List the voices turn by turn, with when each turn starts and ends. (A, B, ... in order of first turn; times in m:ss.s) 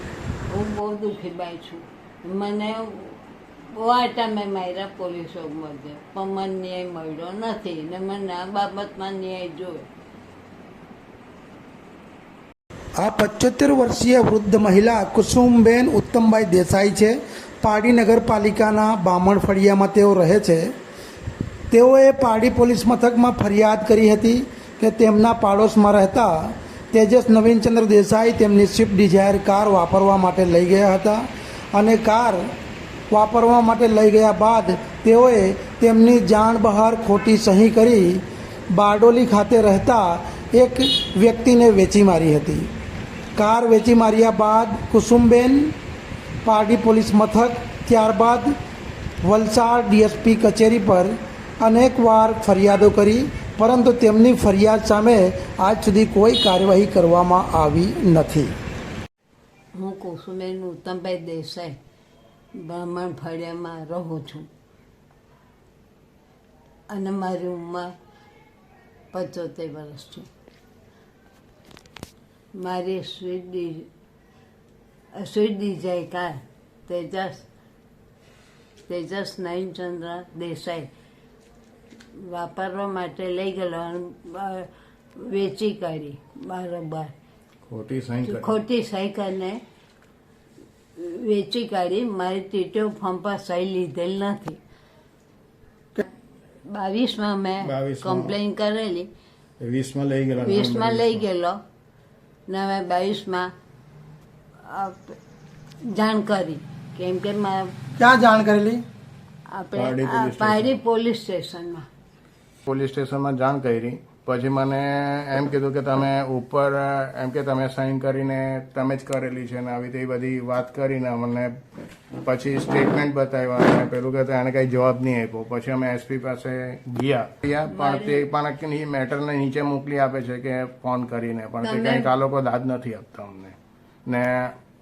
0:00.5-0:09.9 A
0:13.0-0:20.7 B
0:21.7-0:32.5 B
0:33.1-0:42.7 B
0:43.4-0:45.7 B
0:46.4-0:48.5 B
0:49.2-0:58.5 B
0:59.7-1:01.8 A
1:02.5-1:04.5 A
1:06.9-1:07.9 A
1:09.1-1:10.3 A
1:12.5-1:13.9 A
1:15.1-1:17.4 A
1:18.9-1:20.9 A
1:22.1-1:27.1 A
1:27.7-1:28.6 C
1:28.2-1:29.6 A
1:31.0-1:34.6 A
1:36.6-1:39.1 A
1:37.6-1:38.3 C
1:39.6-1:41.2 C
1:40.4-1:41.6 A
1:42.5-1:43.5 A
1:44.6-1:45.2 A
1:45.9-1:47.7 A
1:48.0-1:48.8 B
1:49.5-1:51.8 A
1:49.7-1:50.8 C
1:52.6-2:01.5 C
2:02.2-2:14.5 C
2:07.6-2:08.3 A
2:11.6-2:12.1 A